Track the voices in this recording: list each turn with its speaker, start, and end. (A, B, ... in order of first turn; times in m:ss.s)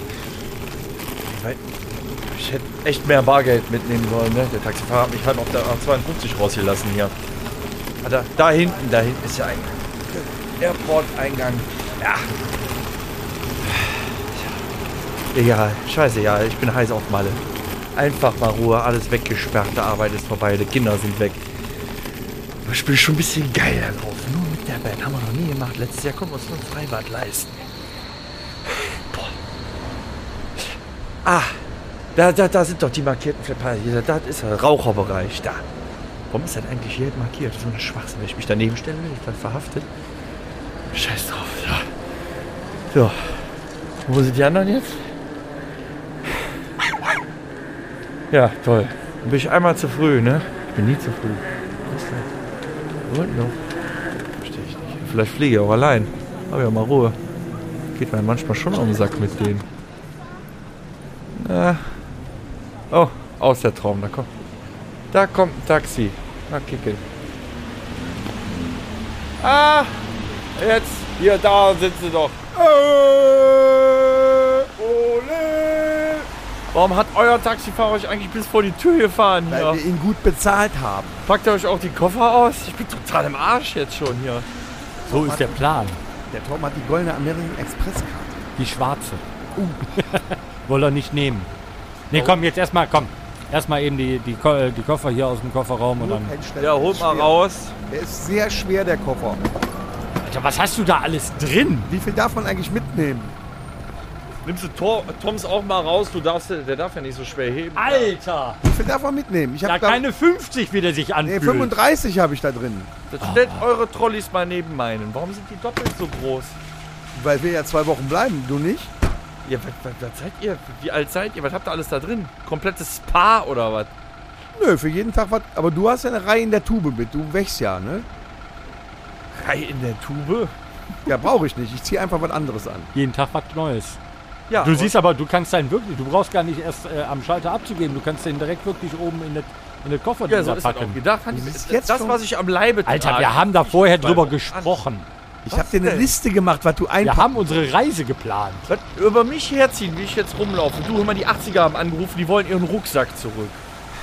0:01.3-0:01.6 A
0:02.3-0:07.1 A
0:08.0-0:12.3 A
0:13.6-0:14.6 A
0:15.3-0:17.4 A
0:18.0-0:21.4 A
0:22.6-0:27.6 A
0:28.7-0:29.4 A
0:30.6-0:31.6 A
0:32.2-0:35.6 A
0:36.3-0:39.9 A
0:40.9-0:41.9 A
0:42.9-0:43.4 A
0:44.0-0:45.0 A
0:48.3-0:52.3 A
0:53.1-0:53.6 A
0:54.4-0:57.2 A
0:58.0-0:59.6 A
1:01.4-1:01.9 A
1:02.9-1:04.3 A
1:05.1-1:07.0 A
1:09.4-1:10.0 A
1:10.6-1:19.8 A
1:19.5-1:21.2 B
1:21.2-1:24.5 A
1:25.0-1:25.5 B
1:25.1-1:26.0 C
1:26.3-1:28.4 B
1:28.6-1:29.2 C
1:29.6-1:29.9 B
1:29.9-1:31.5 C
1:32.1-1:36.3 C
1:36.0-1:37.4 B
1:36.6-1:37.7 A
1:37.9-1:39.4 B
1:40.2-1:41.9 C
1:41.9-1:43.4 B
1:44.4-1:48.1 A
1:47.8-1:48.6 C
1:48.6-1:50.0 B
1:49.6-1:51.7 C
1:51.2-1:52.9 B
1:53.1-1:56.6 A
1:53.2-1:53.6 C
1:57.1-1:58.9 B
1:59.4-2:03.9 A
2:04.6-2:08.1 B
2:09.3-2:10.5 A
2:11.1-2:12.9 B
2:12.9-2:14.0 C
2:14.5-2:14.9 A
2:14.6-2:21.0 C
2:20.3-2:24.8 A
2:21.3-2:22.2 B
2:22.9-2:25.1 C
2:25.5-2:27.6 B
2:25.5-2:26.1 A
2:27.0-2:28.7 C
2:28.7-2:33.6 A